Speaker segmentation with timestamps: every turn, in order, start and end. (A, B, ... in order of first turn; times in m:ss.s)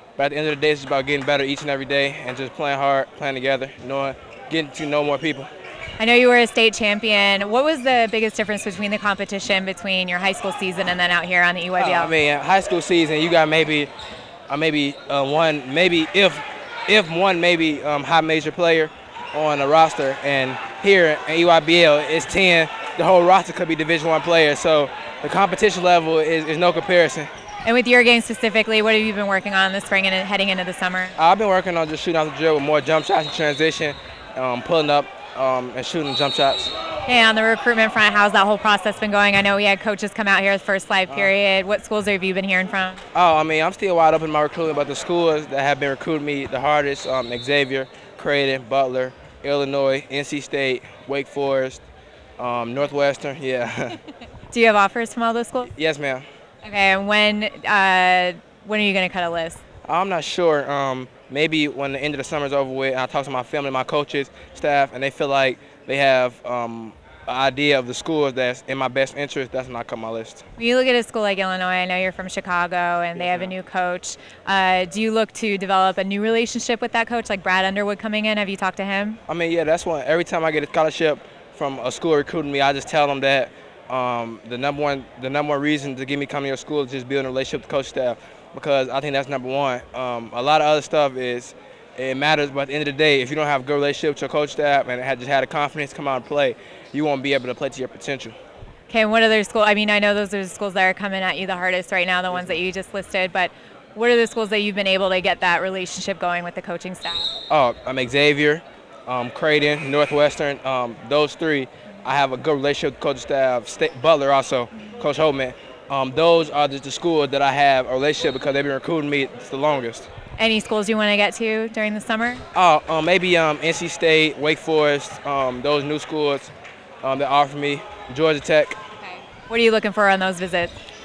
0:00.2-0:05.5 A
0:06.0-0:12.1 B
0:11.8-0:13.9 A
0:14.5-0:27.3 A
0:27.6-0:31.1 B
0:31.2-0:36.7 A
0:37.0-0:43.0 B
0:41.1-0:41.3 A
0:43.1-0:51.8 A
0:52.4-0:54.0 A
0:54.5-0:55.7 B
0:55.7-0:56.2 A
0:56.6-0:59.6 B
0:59.9-1:10.4 A
1:10.6-1:19.2 B
1:13.2-1:13.5 A
1:19.3-1:38.4 A
1:38.9-1:47.3 B
1:42.3-1:42.6 A
1:47.5-2:00.1 A
2:00.4-2:02.4 B
2:02.5-2:08.8 A
2:09.1-2:10.7 B